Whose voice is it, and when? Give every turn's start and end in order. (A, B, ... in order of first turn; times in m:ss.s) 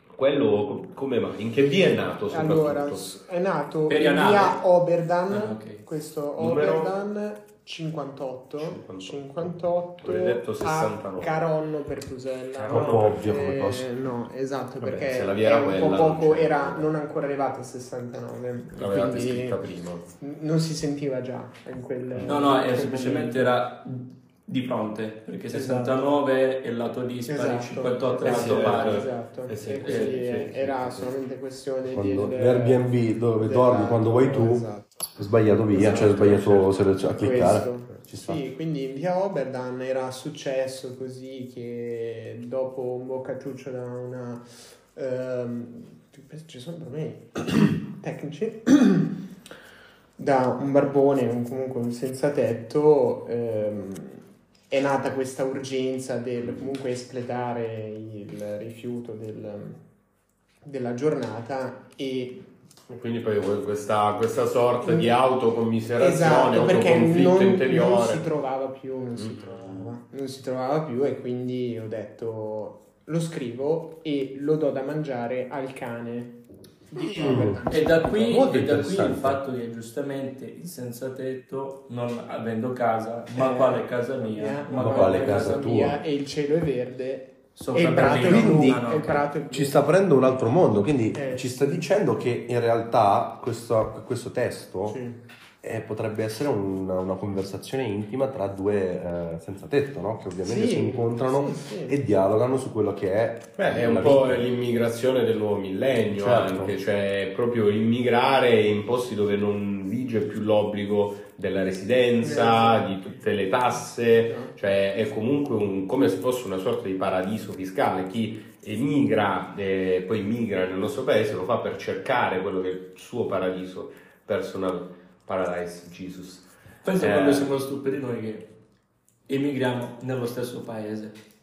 0:00.2-0:03.1 A
0:02.3-0:19.6 B
0:03.9-0:04.6 C
0:05.3-0:05.8 C
0:06.4-0:06.9 A
0:08.6-0:11.5 A
0:12.6-0:13.2 A
0:12.7-0:13.9 D
0:14.8-0:16.9 A
0:18.8-0:20.1 A
0:20.2-0:23.5 B
0:22.2-0:29.1 C
0:25.5-0:26.0 B
0:27.3-0:32.9 B
0:28.2-0:31.1 A
0:29.8-0:30.1 C
0:31.9-0:38.4 D
0:33.4-0:35.0 B
0:35.7-0:49.2 B
0:35.8-0:36.5 A
0:50.2-0:59.8 B
1:00.6-1:02.4 B
1:02.9-1:08.2 A
1:04.8-1:05.1 B
1:06.0-1:16.4 B
1:09.2-1:09.9 A
1:16.9-1:18.3 B
1:17.1-1:19.4 D
1:17.7-1:25.7 C
1:23.3-1:29.9 B
1:24.7-1:26.0 D
1:27.6-1:29.3 C
1:28.0-1:28.9 D
1:29.5-1:35.0 D
1:31.1-1:31.8 B
1:34.9-1:35.2 B
1:35.6-1:44.4 D
1:40.4-1:42.0 B
1:43.6-2:07.5 A
1:46.2-1:46.8 D
1:52.2-1:52.9 B
2:06.8-2:08.5 C
2:09.3-2:11.2 C